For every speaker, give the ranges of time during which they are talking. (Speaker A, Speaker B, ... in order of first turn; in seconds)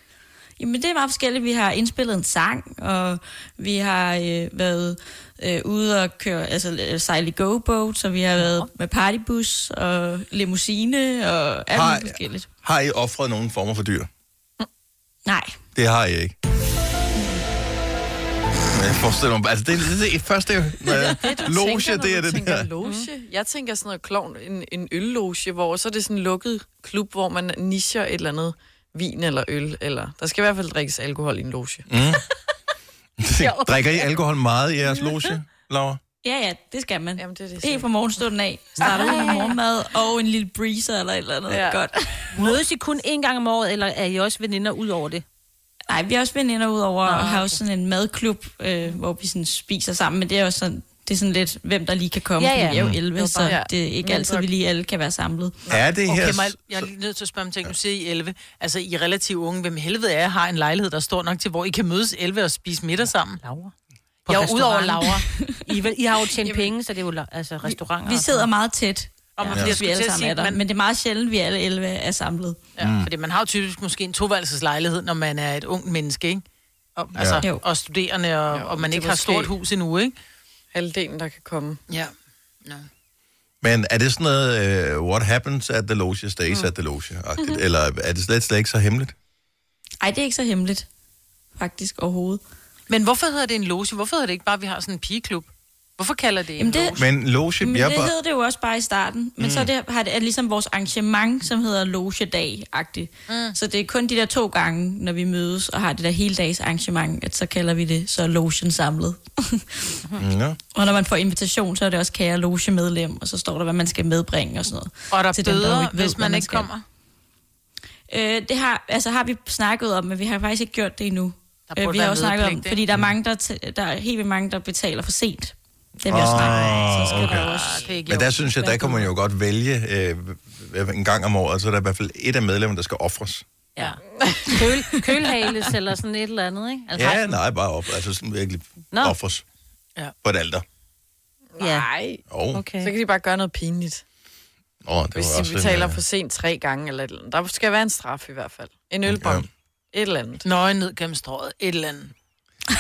Speaker A: 0.6-12.5, 36.2-42.5, 45.9-55.6, 65.3-65.6, 68.0-72.6, 90.0-90.9, 91.6-92.4, 96.6-97.0, 97.6-109.8, 110.7-116.7, 118.1-127.9
Speaker B: 8.4-8.7, 21.2-21.6, 22.8-23.1, 33.4-34.1, 38.8-39.5, 42.4-45.2, 47.1-47.6, 52.4-53.6, 63.4-63.7, 64.3-68.5, 128.7-129.1, 133.8-137.4, 138.9-139.2, 141.6-141.9, 142.5-143.0
Speaker C: 11.7-14.1, 15.8-16.4, 18.7-22.7, 31.9-32.2, 33.2-36.0, 55.7-56.9, 72.8-73.1, 77.2-77.4, 83.6-89.2, 96.9-98.1, 99.4-99.7, 110.2-110.6, 126.1-133.4, 136.9-139.4, 140.2-140.7, 142.3-142.6, 144.8-146.0, 149.1-149.5
Speaker D: 21.3-31.9, 37.2-37.9, 41.5-41.9, 52.7-54.5, 66.4-66.7, 78.5-79.5, 80.7-81.8, 134.2-134.7, 141.6-142.2, 142.8-144.0, 145.2-150.4
Speaker E: 56.1-63.4, 64.3-65.2, 69.4-70.6, 72.8-76.4, 77.0-80.2, 92.9-97.1, 103.3-103.5, 115.1-116.8, 121.7-122.8, 126.5-128.8, 150.4-152.1